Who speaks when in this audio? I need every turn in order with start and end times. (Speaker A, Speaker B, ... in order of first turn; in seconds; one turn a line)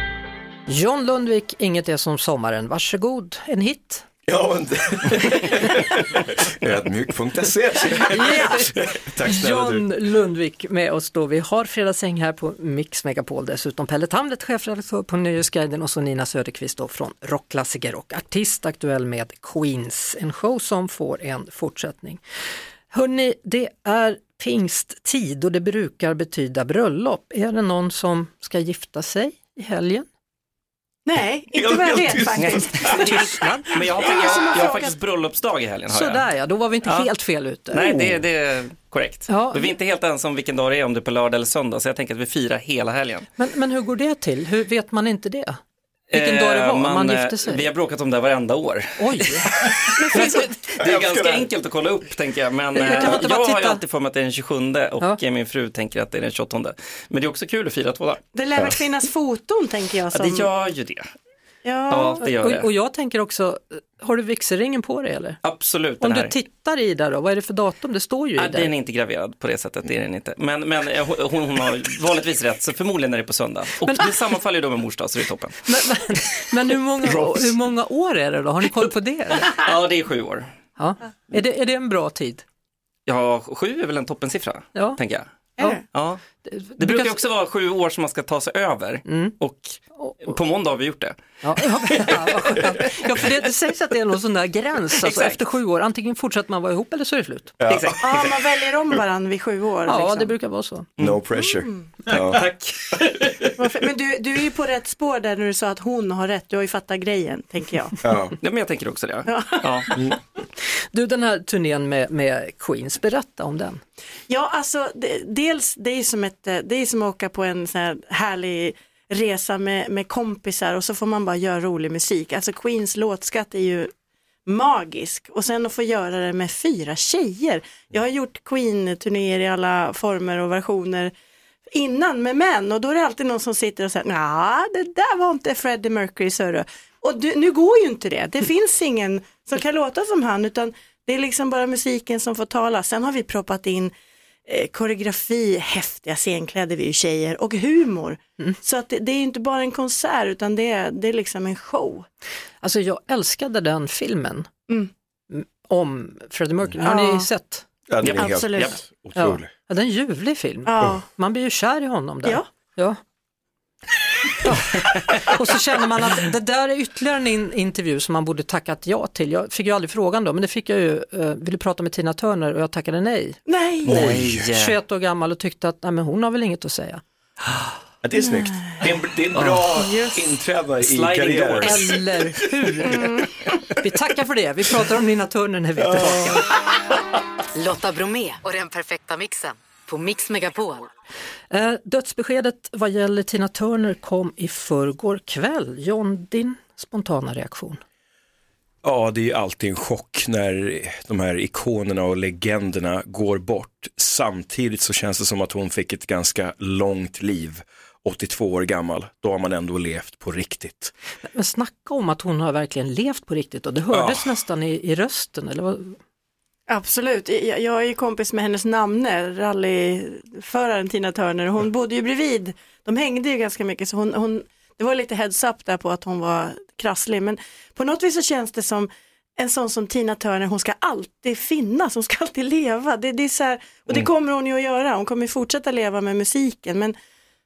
Speaker A: 0.7-4.1
Speaker B: 4.3-9.9
Speaker A: 8.1-8.7
Speaker A: 9.2-22.2
Speaker A: 22.9-30.1
Speaker C: 31.1-35.0
Speaker B: 31.5-33.3
Speaker D: 32.4-36.3
Speaker A: 33.1-33.7
Speaker A: 35.9-37.8
Speaker D: 36.8-37.1
Speaker D: 37.7-43.3
Speaker B: 37.8-38.2
Speaker A: 39.3-39.7
Speaker A: 43.4-45.6
Speaker D: 46.1-58.2
Speaker A: 46.1-47.6
Speaker A: 49.0-49.5
Speaker B: 49.6-51.5
Speaker C: 50.0-50.5
Speaker A: 52.8-53.8
Speaker C: 58.3-60.5
Speaker D: 60.1-61.1
Speaker C: 61.6-62.2
Speaker D: 61.9-62.7
Speaker A: 62.2-65.4
Speaker D: 65.4-66.3
Speaker A: 66.0-68.7
Speaker D: 68.4-75.7
Speaker A: 75.7-79.5
Speaker B: 77.0-77.5
Speaker D: 79.4-80.5
Speaker A: 80.8-82.4
Speaker D: 83.1-85.3
Speaker D: 85.9-86.2
Speaker A: 86.4-87.2
Speaker D: 86.8-92.6
Speaker A: 89.1-89.4
Speaker A: 91.4-97.6
Speaker D: 95.0-95.4
Speaker B: 97.6-98.3
Speaker D: 97.7-98.1
Speaker C: 98.0-100.3
Speaker A: 99.9-100.9
Speaker B: 101.0-102.5
Speaker C: 101.4-101.9
Speaker D: 102.1-103.6
Speaker C: 103.6-108.0
Speaker B: 108.0-108.3
Speaker D: 108.4-109.9
Speaker C: 109.3-109.9
Speaker A: 110.9-113.8
Speaker C: 114.3-123.9
Speaker C: 124.5-131.1
Speaker C: 131.7-143.9
Speaker C: 144.5-152.1
Speaker A: 152.6-154.5
Speaker A: 155.3-157.7
Speaker C: 156.8-157.3
Speaker B: 157.9-159.5
Speaker D: 158.0-158.8
Speaker C: 158.1-158.8
Speaker A: 159.2-163.0
Speaker C: 160.7-161.1
Speaker A: 164.4-173.4
Speaker C: 173.5-174.0
Speaker B: 173.8-174.5
Speaker D: 173.9-174.8
Speaker A: 174.5-177.0
Speaker B: 178.0-181.9
Speaker C: 178.3-178.7
Speaker D: 179.4-179.7
Speaker C: 179.8-180.2
Speaker D: 180.8-182.0
Speaker A: 181.6-183.0
Speaker C: 182.9-183.3
Speaker A: 183.8-186.5
Speaker B: 185.8-186.4
Speaker E: 187.6-190.9
Speaker A: 191.5-197.8
Speaker B: 198.8-210.9
Speaker A: 211.3-216.0
Speaker B: 213.9-214.2
Speaker C: 216.7-236.9